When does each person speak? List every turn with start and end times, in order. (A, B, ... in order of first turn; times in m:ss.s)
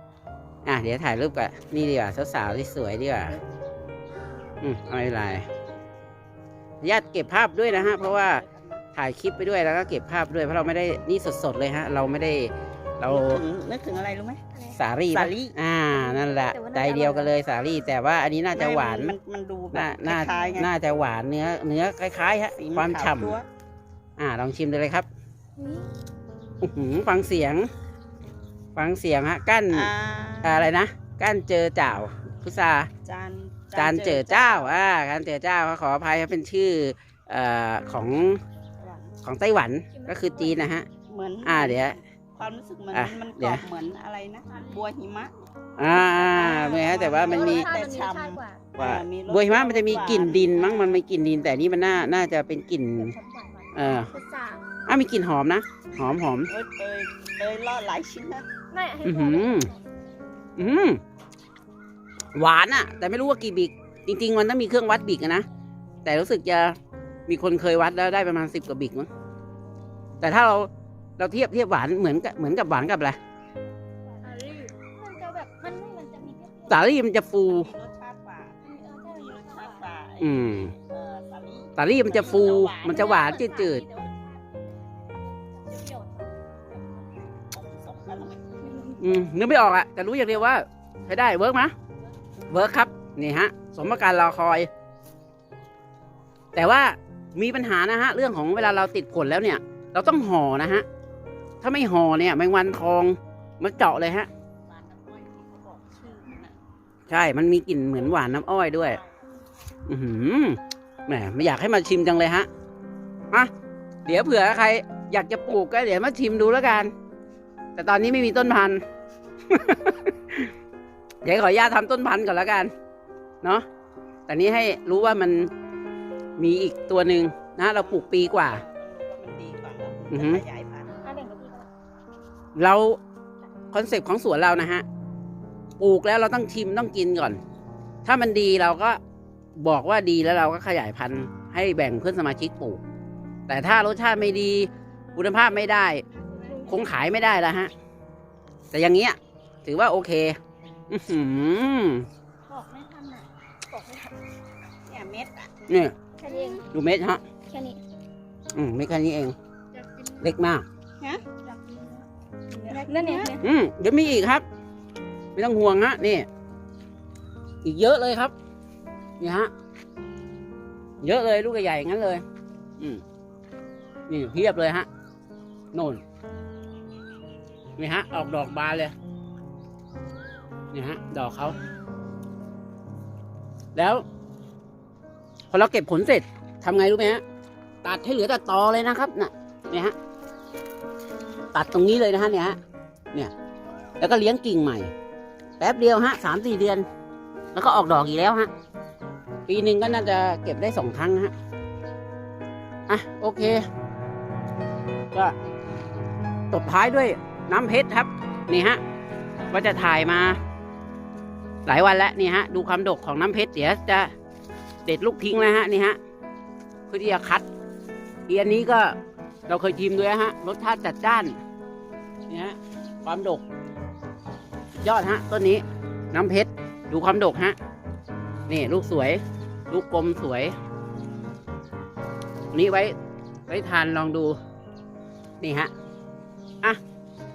0:00.7-0:03.4 A
0:04.6-0:05.5 A
0:06.8-0:08.4 A
0:07.7-0:08.9 B
0:08.9-0:13.4 A
0:13.1-0:14.4 B
0:14.8-0:19.2 A
0:15.1-0:15.6 B
0:16.1-0:17.3 C
0:18.5-0:20.7 B
0:19.7-0:23.4 A
0:20.3-0:20.6 C
0:22.6-0:23.5 B
0:24.2-0:25.1 A
0:25.6-0:25.9 C
0:26.6-0:27.7 A
0:28.8-0:29.9 A
0:29.7-0:30.7 B
0:30.4-0:32.9 A
0:33.0-0:34.8 B
0:33.8-0:38.4 A
0:38.8-0:39.1 B
0:39.2-0:40.9 A
0:39.9-0:40.5 C
0:41.1-0:45.3 B
0:41.4-0:42.0 A
0:42.9-0:43.6 A
0:45.8-0:47.7 A
0:46.0-0:51.0 B
0:47.2-0:48.6 C
0:48.8-0:53.2 A
0:53.0-0:54.6 C
0:53.7-0:54.1 A
0:54.9-0:56.5 A
0:56.5-0:58.5 B
0:58.7-0:59.8 C
0:59.0-0:59.7 A
1:00.6-1:01.0 A
1:02.3-1:05.5 A
1:06.0-1:09.1 A
1:10.2-1:13.2 A
1:14.2-1:16.9 C
1:16.7-1:17.7 A
1:17.4-1:23.4 B
1:18.6-1:19.8 C
1:20.2-1:20.8 A
1:21.8-1:23.8 A
1:22.2-1:26.3 C
1:26.7-1:28.6 B
1:29.0-1:31.7 A
1:32.5-1:34.7 A
1:36.6-1:40.8 A
1:41.6-1:44.3 A
1:44.7-1:46.6 B
1:47.1-1:49.0 A
1:48.4-1:49.4 B
1:49.9-1:52.5 A
1:54.1-1:56.9 A
1:57.8-1:58.8 A
1:59.5-2:00.5 A
2:01.2-2:02.7 A
2:04.3-2:05.5 A
2:06.4-2:08.6 A
2:07.8-2:11.0 B
2:10.1-2:10.4 A
2:11.0-2:11.7 C
2:12.6-2:13.0 A
2:13.7-2:14.8 A
2:15.8-2:17.4 A
2:18.0-2:19.0 A
2:19.6-2:22.8 A
2:23.5-2:26.0 A
2:26.3-2:27.0 C
2:26.7-2:27.7 A
2:28.7-2:30.4 A
2:30.9-2:32.1 A
2:32.5-2:33.3 B
2:33.7-2:34.2 C
2:34.9-2:35.5 B
2:35.7-2:36.0 A
2:36.2-2:36.6 C
2:36.7-2:37.2 A
2:37.5-2:37.8 C
2:38.5-2:39.4 A
2:39.8-2:40.2 C
2:40.2-2:40.7 A
2:41.0-2:42.0 B
2:41.4-2:41.9 C
2:42.5-2:43.4 C
2:42.7-2:43.4 B
2:43.4-2:44.4 A
2:45.4-2:46.3 A
2:47.6-2:48.3 A
2:49.2-2:49.5 A
2:51.0-2:52.2 A
2:54.1-2:54.9 A
2:55.7-2:56.0 A
2:57.8-2:58.9 A
3:00.7-3:01.6 A
3:03.8-3:04.0 A
3:05.5-3:07.2 A
3:07.8-3:10.0 A
3:11.5-3:12.6 A
3:14.0-3:14.9 A
3:15.6-3:16.9 A
3:17.5-3:18.5 A
3:19.5-3:21.3 A
3:22.9-3:23.7 A
3:26.5-3:28.8 A
3:29.5-3:30.4 A
3:31.7-3:34.1 A
3:34.9-3:36.0 A
3:36.9-3:37.5 A
3:38.3-3:39.0 A
3:39.5-3:41.4 A
3:42.3-3:43.4 A
3:44.8-3:47.6 A
3:48.5-3:50.5 A
3:52.5-3:52.9 A
3:53.5-3:54.4 A
3:55.4-3:55.7 A